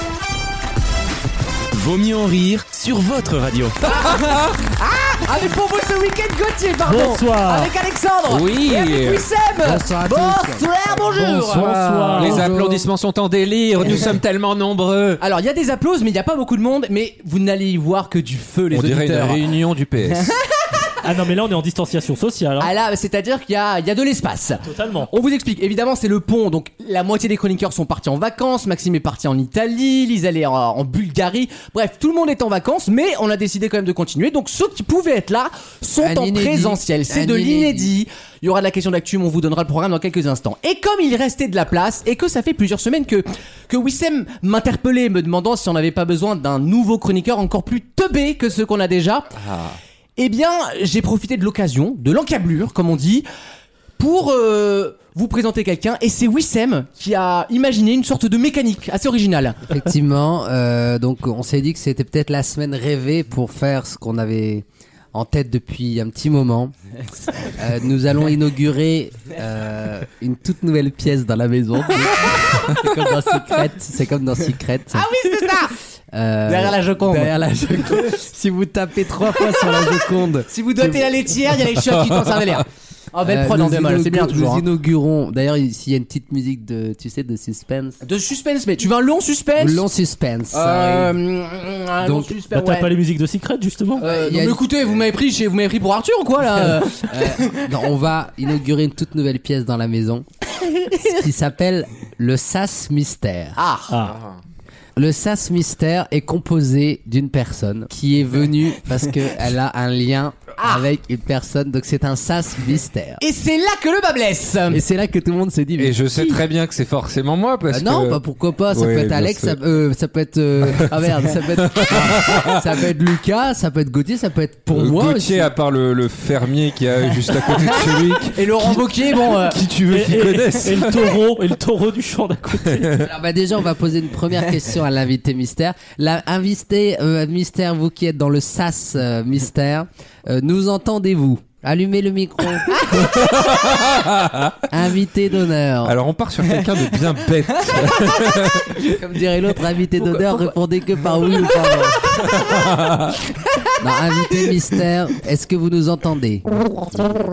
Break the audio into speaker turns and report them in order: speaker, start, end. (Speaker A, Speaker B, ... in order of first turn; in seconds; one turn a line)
Speaker A: 1.7-3.8
Speaker B: 3.8-12.3
Speaker C: 6.8-7.7
Speaker D: 8.3-9.2
Speaker E: 9.6-12.9
Speaker C: 11.4-12.5
Speaker D: 12.1-15.2
Speaker B: 15.2-19.4
Speaker D: 18.7-20.4
Speaker C: 21.0-22.7
Speaker B: 22.6-49.3
Speaker C: 24.6-25.1
Speaker E: 36.0-37.9
Speaker D: 49.3-49.8
Speaker B: 50.2-53.3
Speaker B: 54.0-59.6
Speaker E: 59.6-66.7
Speaker E: 67.4-75.1
Speaker B: 74.9-75.7
Speaker E: 76.1-81.0
Speaker B: 76.5-77.3
Speaker B: 80.5-84.6
Speaker E: 83.2-88.0
Speaker B: 88.0-89.8
Speaker E: 89.6-91.2
Speaker B: 90.5-92.9
Speaker E: 92.0-92.3
Speaker C: 92.5-94.0
Speaker E: 94.0-95.0
Speaker B: 94.0-97.7
Speaker E: 96.8-100.3
Speaker E: 100.9-103.6
Speaker B: 103.5-103.9
Speaker C: 103.9-104.2
Speaker D: 104.0-104.4
Speaker E: 105.0-113.2
Speaker B: 110.6-110.8
Speaker B: 113.2-114.8
Speaker E: 114.7-116.4
Speaker D: 115.8-118.2
Speaker E: 117.7-125.5
Speaker D: 118.7-119.6
Speaker D: 120.6-122.6
Speaker D: 124.7-131.1
Speaker B: 128.2-129.6
Speaker C: 129.9-132.9
Speaker D: 132.7-133.0
Speaker E: 132.9-142.8
Speaker D: 142.9-144.6
Speaker E: 144.7-146.0
Speaker D: 145.8-148.7
Speaker E: 148.8-152.1
Speaker D: 152.5-153.0
Speaker E: 153.8-157.1